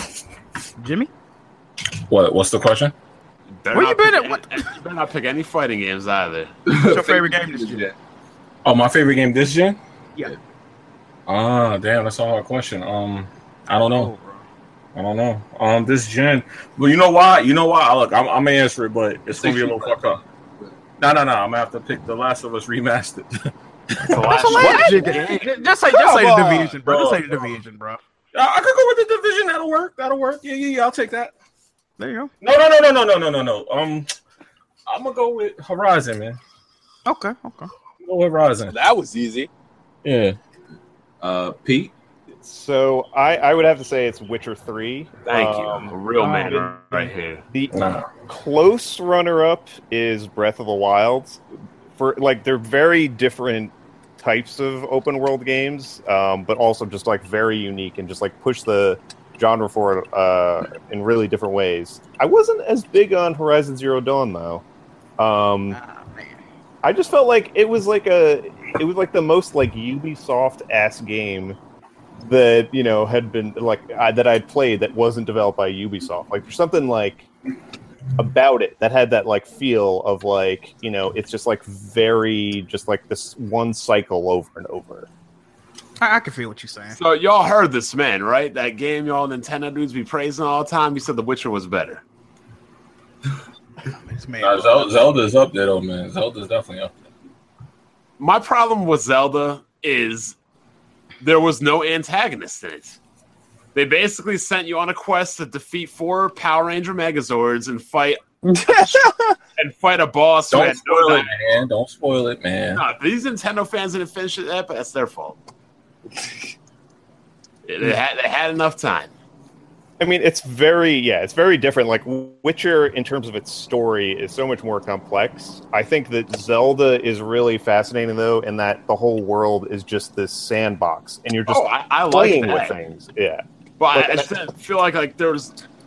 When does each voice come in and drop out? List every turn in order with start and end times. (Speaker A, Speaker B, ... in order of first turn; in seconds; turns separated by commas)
Speaker A: 0.8-1.1, Speaker B: 2.1-2.9, Speaker C: 3.6-6.5, Speaker A: 3.7-4.7, Speaker D: 6.7-8.0, Speaker A: 6.8-7.8, Speaker B: 8.6-9.8, Speaker B: 11.3-14.1, Speaker A: 13.9-14.4, Speaker B: 14.9-20.2, Speaker D: 19.4-20.1, Speaker B: 21.0-24.3, Speaker C: 24.0-25.6, Speaker A: 24.3-28.0, Speaker E: 24.6-25.1, Speaker E: 25.9-26.8, Speaker B: 26.8-27.5, Speaker B: 28.3-31.3, Speaker A: 32.0-32.3, Speaker B: 32.4-34.1, Speaker B: 34.9-36.4, Speaker A: 37.0-37.7, Speaker B: 38.0-38.8, Speaker E: 38.7-39.5, Speaker B: 40.0-40.4, Speaker D: 41.2-41.9, Speaker F: 42.4-45.9, Speaker C: 45.2-47.4, Speaker A: 46.2-47.1, Speaker F: 47.5-51.4, Speaker B: 47.7-48.1, Speaker F: 51.9-64.6, Speaker F: 65.2-65.8, Speaker A: 65.7-66.4, Speaker F: 66.8-71.6, Speaker F: 72.2-77.3, Speaker F: 78.2-85.1, Speaker A: 86.0-87.0, Speaker C: 86.9-92.0, Speaker A: 93.9-94.9, Speaker B: 94.4-96.9, Speaker C: 98.2-100.4, Speaker C: 101.2-103.0, Speaker C: 103.7-108.9, Speaker E: 108.5-109.1, Speaker C: 109.5-111.3, Speaker B: 110.5-112.8, Speaker C: 112.7-115.4, Speaker C: 117.6-119.1, Speaker F: 120.0-134.3, Speaker C: 131.5-132.8, Speaker C: 133.8-135.6